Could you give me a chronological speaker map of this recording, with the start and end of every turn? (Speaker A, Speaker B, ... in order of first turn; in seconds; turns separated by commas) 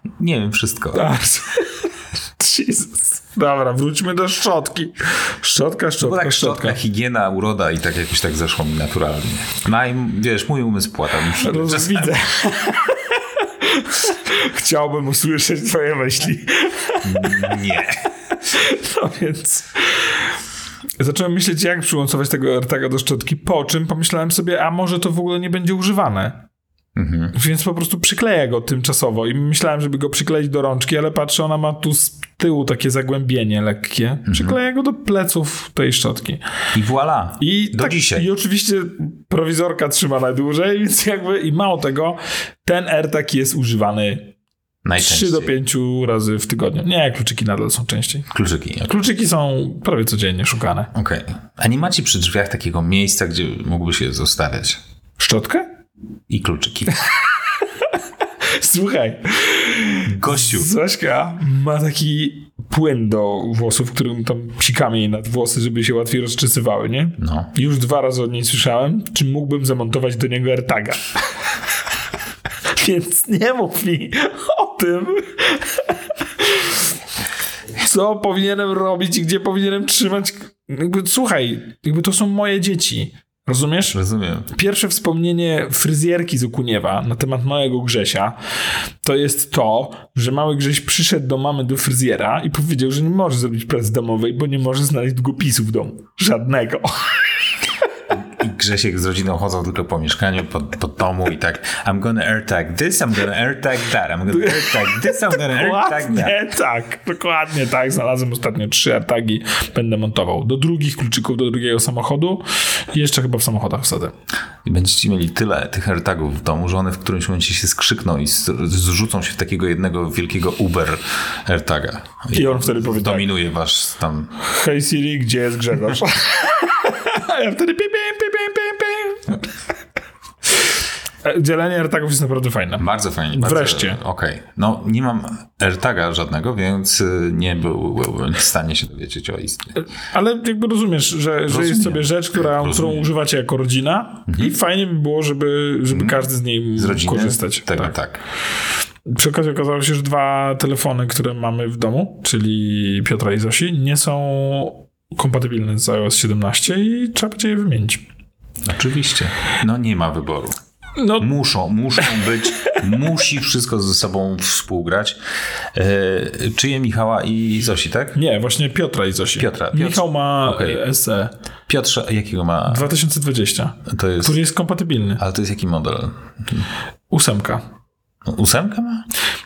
Speaker A: 0.2-1.1, Speaker B: 0.9-6.8, Speaker A: 6.0-12.2, Speaker B: 11.2-17.7, Speaker A: 17.0-18.0, Speaker B: 18.3-20.4, Speaker B: 21.0-26.4, Speaker A: 26.9-27.3, Speaker B: 27.3-36.4, Speaker A: 34.3-34.6, Speaker A: 36.7-38.3, Speaker B: 37.4-44.3, Speaker A: 44.8-45.5, Speaker B: 45.0-48.3, Speaker A: 48.3-49.0, Speaker B: 48.9-50.9, Speaker A: 50.9-54.8, Speaker B: 55.2-55.6, Speaker A: 56.3-57.1, Speaker B: 57.6-71.1, Speaker A: 60.0-60.7, Speaker A: 67.2-67.5, Speaker B: 72.7-76.9, Speaker B: 77.8-84.0, Speaker A: 83.9-84.5, Speaker B: 84.5-88.4, Speaker B: 89.0-97.5, Speaker A: 98.1-106.4, Speaker B: 104.3-114.1, Speaker A: 114.6-124.3, Speaker B: 122.3-123.3, Speaker B: 124.4-129.4, Speaker B: 131.2-134.0, Speaker A: 132.8-139.8, Speaker B: 139.8-147.9, Speaker A: 141.5-143.1, Speaker A: 144.3-144.5, Speaker A: 145.9-148.2, Speaker B: 149.0-158.1, Speaker A: 158.7-160.6, Speaker B: 160.9-161.3, Speaker A: 161.1-165.2, Speaker A: 165.7-168.2, Speaker B: 168.1-171.3, Speaker A: 169.4-170.8, Speaker A: 171.7-172.9, Speaker B: 172.7-175.2, Speaker A: 173.9-174.3, Speaker A: 175.2-176.7, Speaker B: 177.1-177.6, Speaker A: 178.2-179.1